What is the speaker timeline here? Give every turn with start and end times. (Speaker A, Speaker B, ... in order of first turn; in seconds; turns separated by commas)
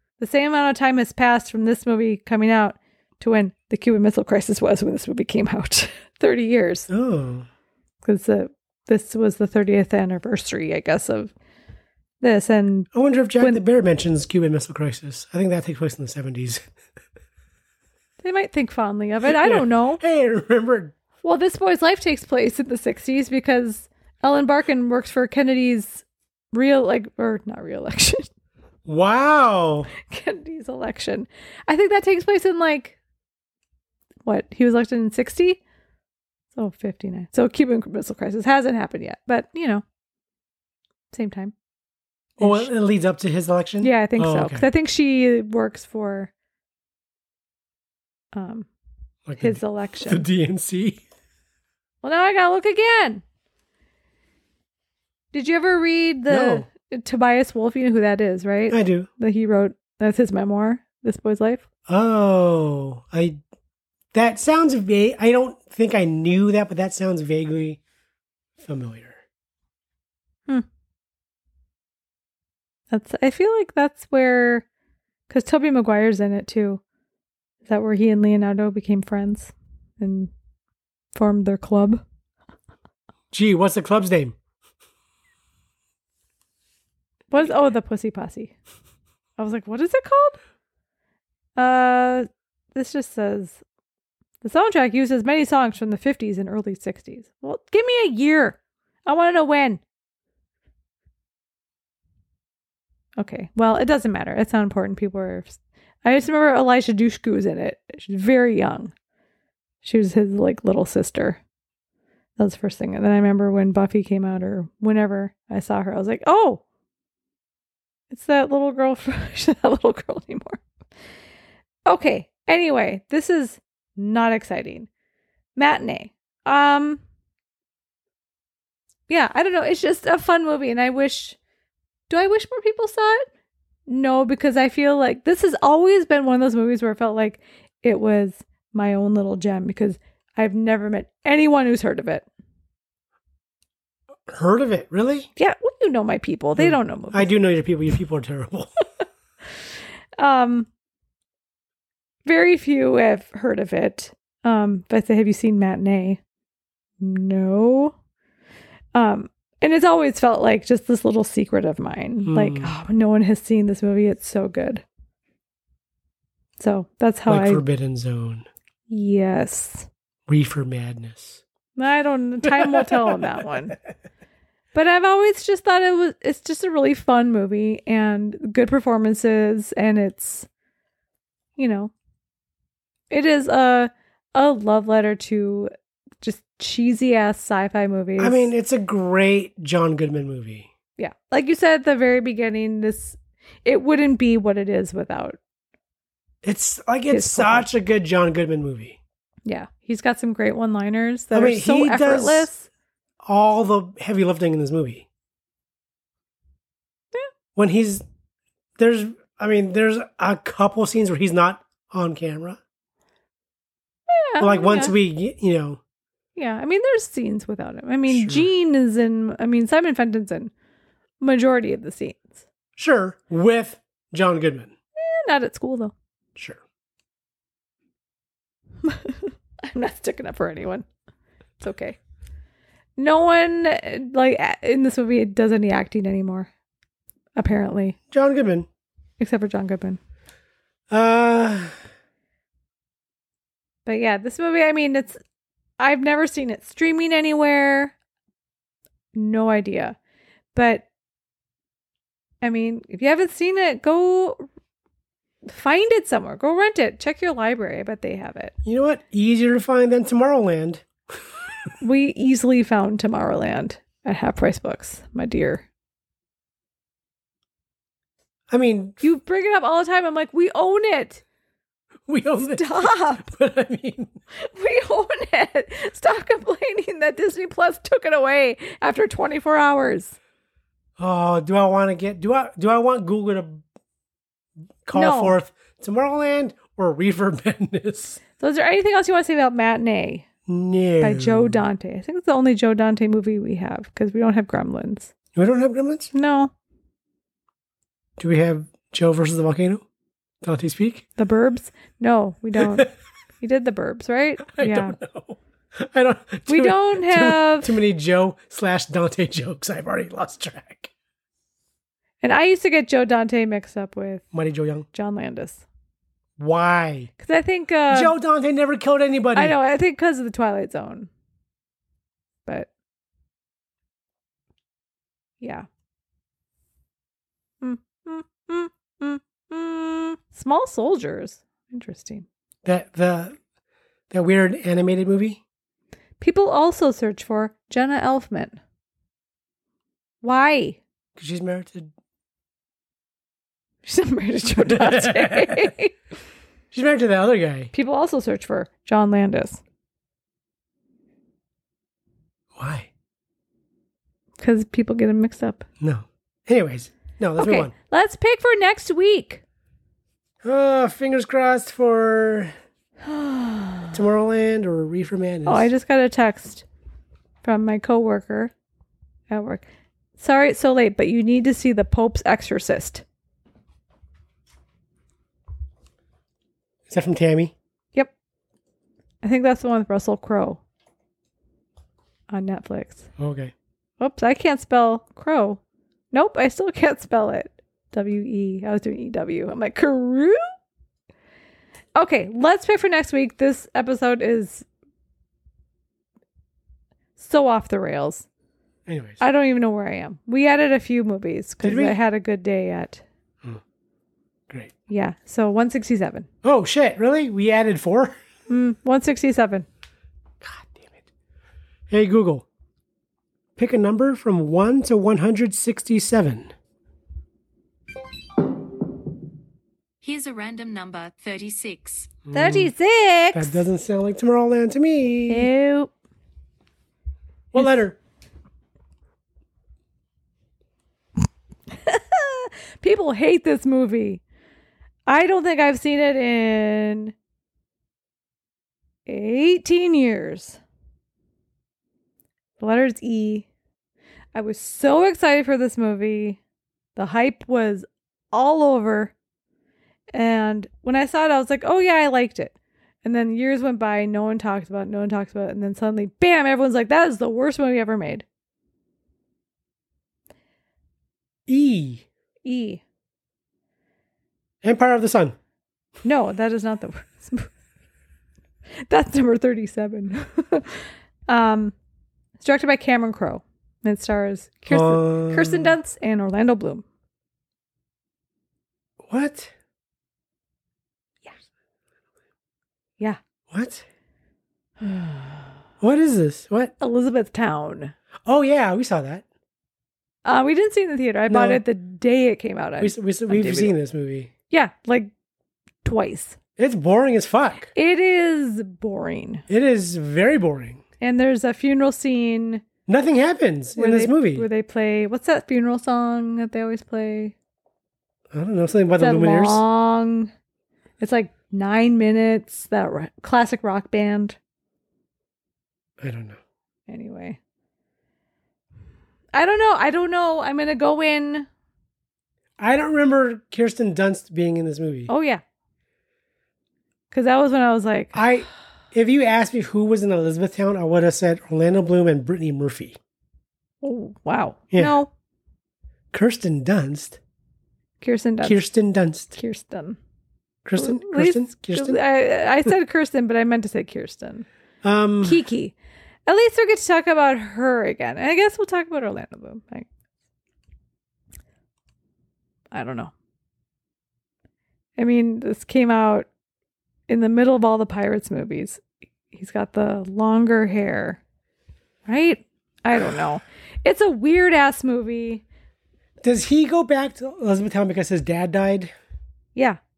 Speaker A: 0.2-6.9, Speaker B: 6.9-7.5, Speaker A: 8.0-11.3, Speaker A: 12.2-12.9, Speaker B: 12.9-16.6, Speaker A: 18.2-20.0, Speaker B: 19.2-20.9, Speaker A: 21.2-28.3, Speaker B: 28.9-29.9, Speaker A: 30.0-33.0, Speaker A: 34.2-35.6, Speaker A: 36.5-39.8, Speaker A: 41.1-41.5, Speaker B: 42.4-44.7, Speaker A: 42.4-42.7, Speaker A: 43.8-46.3, Speaker A: 48.3-48.7, Speaker B: 49.3-51.0, Speaker A: 49.4-50.2, Speaker A: 52.0-53.2, Speaker A: 55.3-61.6, Speaker B: 56.3-56.7, Speaker B: 58.7-59.1, Speaker B: 61.9-63.4, Speaker B: 64.1-67.8, Speaker B: 68.6-69.2, Speaker A: 72.9-74.6, Speaker A: 75.3-76.8, Speaker A: 77.6-80.3, Speaker A: 81.1-82.0, Speaker B: 83.3-84.3, Speaker A: 87.3-88.5, Speaker A: 89.4-90.4, Speaker A: 91.6-93.6, Speaker A: 94.4-99.8, Speaker A: 103.2-108.9, Speaker A: 109.8-111.4, Speaker A: 112.4-116.6, Speaker A: 118.1-120.6, Speaker A: 121.8-124.9, Speaker A: 125.5-127.0, Speaker A: 129.1-131.4, Speaker A: 132.1-133.2, Speaker A: 133.9-142.2, Speaker B: 144.3-145.3, Speaker A: 145.4-147.3, Speaker B: 146.6-148.7, Speaker A: 150.2-150.7, Speaker A: 152.2-156.2, Speaker A: 157.0-157.9, Speaker A: 158.9-164.8, Speaker B: 162.2-162.7, Speaker A: 166.6-167.6, Speaker B: 167.3-168.5, Speaker A: 168.9-169.9, Speaker B: 170.3-171.4, Speaker A: 171.8-173.8, Speaker B: 172.4-173.5, Speaker A: 174.7-180.5, Speaker A: 181.6-181.9, Speaker A: 183.1-185.7, Speaker A: 186.2-188.5, Speaker B: 188.2-190.7, Speaker A: 191.0-195.4, Speaker B: 196.4-199.0, Speaker A: 197.1-197.7, Speaker A: 199.4-202.7, Speaker B: 201.3-202.5, Speaker B: 203.2-205.1, Speaker B: 207.6-208.0, Speaker B: 208.8-212.6, Speaker A: 214.1-214.9, Speaker B: 214.4-215.8, Speaker A: 216.3-220.5, Speaker B: 218.1-218.5, Speaker A: 221.2-222.4, Speaker B: 222.8-224.7, Speaker A: 225.0-225.9, Speaker B: 226.3-226.6, Speaker A: 228.8-230.8, Speaker A: 231.6-232.0, Speaker A: 233.0-236.5, Speaker A: 237.3-237.9, Speaker B: 238.1-238.7, Speaker A: 239.2-240.0, Speaker B: 240.9-241.8, Speaker A: 243.8-245.2, Speaker A: 245.8-247.9, Speaker A: 249.1-249.9, Speaker A: 250.5-250.8, Speaker A: 252.4-254.4, Speaker A: 255.4-258.5, Speaker B: 258.6-260.9, Speaker A: 261.8-265.6, Speaker B: 268.5-269.0, Speaker A: 269.0-271.2, Speaker B: 272.1-274.2, Speaker A: 272.4-273.3, Speaker A: 274.4-280.1, Speaker B: 281.0-283.6, Speaker B: 284.8-288.2, Speaker A: 284.9-285.4, Speaker A: 288.4-290.2, Speaker B: 290.5-291.6, Speaker A: 291.0-295.1, Speaker B: 295.3-296.1, Speaker A: 296.1-296.5, Speaker B: 298.2-299.8, Speaker B: 300.4-301.1, Speaker A: 301.2-302.9, Speaker B: 302.6-302.9, Speaker A: 303.4-305.0, Speaker B: 304.4-310.9, Speaker A: 306.5-307.7, Speaker A: 312.2-314.2, Speaker B: 314.3-314.9, Speaker A: 314.9-315.6, Speaker B: 316.4-317.1, Speaker A: 317.2-318.1, Speaker B: 317.9-319.6, Speaker A: 319.3-321.1, Speaker A: 325.4-325.7, Speaker A: 327.6-332.2, Speaker B: 332.6-333.4, Speaker B: 334.1-335.4, Speaker A: 336.2-338.6, Speaker A: 340.2-340.8, Speaker B: 341.1-341.9, Speaker A: 343.8-345.9, Speaker B: 344.6-345.7, Speaker B: 346.7-347.7, Speaker A: 347.7-349.6, Speaker B: 352.5-352.9, Speaker A: 354.4-355.6, Speaker B: 355.8-357.7, Speaker A: 357.4-359.4, Speaker B: 360.4-362.5, Speaker A: 363.0-363.9, Speaker B: 363.9-365.7, Speaker A: 365.4-366.6, Speaker A: 367.4-368.5, Speaker A: 369.3-369.6, Speaker A: 370.2-373.0, Speaker B: 376.9-377.5, Speaker A: 379.2-380.6, Speaker A: 382.3-383.1, Speaker B: 383.2-383.5, Speaker A: 384.0-385.6, Speaker A: 386.1-390.4, Speaker A: 391.9-394.6, Speaker A: 397.2-398.2, Speaker B: 398.9-399.2, Speaker A: 399.2-403.0, Speaker B: 401.6-402.0, Speaker B: 404.5-404.7, Speaker A: 404.9-406.3, Speaker B: 406.4-408.2, Speaker A: 408.5-409.7, Speaker B: 410.4-411.1, Speaker B: 411.9-412.4, Speaker B: 413.6-416.5, Speaker C: 420.0-422.2, Speaker B: 422.2-422.7, Speaker A: 422.3-423.6, Speaker B: 423.3-425.5, Speaker A: 425.3-425.9, Speaker B: 427.5-428.0, Speaker A: 431.7-434.2, Speaker A: 435.1-437.1, Speaker A: 439.1-440.6, Speaker A: 442.6-443.4, Speaker A: 444.3-446.4, Speaker A: 446.9-449.1, Speaker A: 450.1-458.2, Speaker B: 461.5-462.1, Speaker A: 462.4-462.8, Speaker B: 464.6-465.4, Speaker A: 466.0-467.5, Speaker A: 468.9-471.7, Speaker A: 472.4-476.8, Speaker B: 474.7-475.8, Speaker B: 479.0-479.5, Speaker B: 483.5-483.8, Speaker A: 484.8-485.5, Speaker B: 485.8-486.7, Speaker A: 486.8-487.9, Speaker B: 488.2-489.2, Speaker A: 490.2-493.8, Speaker B: 491.3-491.6, Speaker B: 492.8-494.3, Speaker A: 494.5-495.1, Speaker A: 495.8-496.4, Speaker B: 496.6-497.7, Speaker A: 497.7-499.4, Speaker B: 499.5-500.8, Speaker A: 501.0-502.6, Speaker B: 502.9-504.5, Speaker A: 503.8-507.3, Speaker B: 508.3-509.6, Speaker A: 509.0-510.3, Speaker A: 511.0-514.4, Speaker B: 516.0-516.4, Speaker A: 516.9-517.4, Speaker A: 519.3-521.5, Speaker B: 522.6-525.1, Speaker A: 525.1-525.4, Speaker A: 527.1-528.2, Speaker B: 528.1-533.0, Speaker A: 533.8-535.1, Speaker B: 536.1-537.2, Speaker A: 538.0-538.6, Speaker B: 538.4-539.4, Speaker A: 539.3-540.0, Speaker B: 540.6-542.0, Speaker A: 540.8-544.5, Speaker B: 544.8-545.4, Speaker A: 545.2-545.7, Speaker A: 546.3-549.9, Speaker A: 552.7-553.1, Speaker A: 555.0-556.3, Speaker A: 557.1-561.2, Speaker A: 562.0-565.4, Speaker B: 566.2-568.9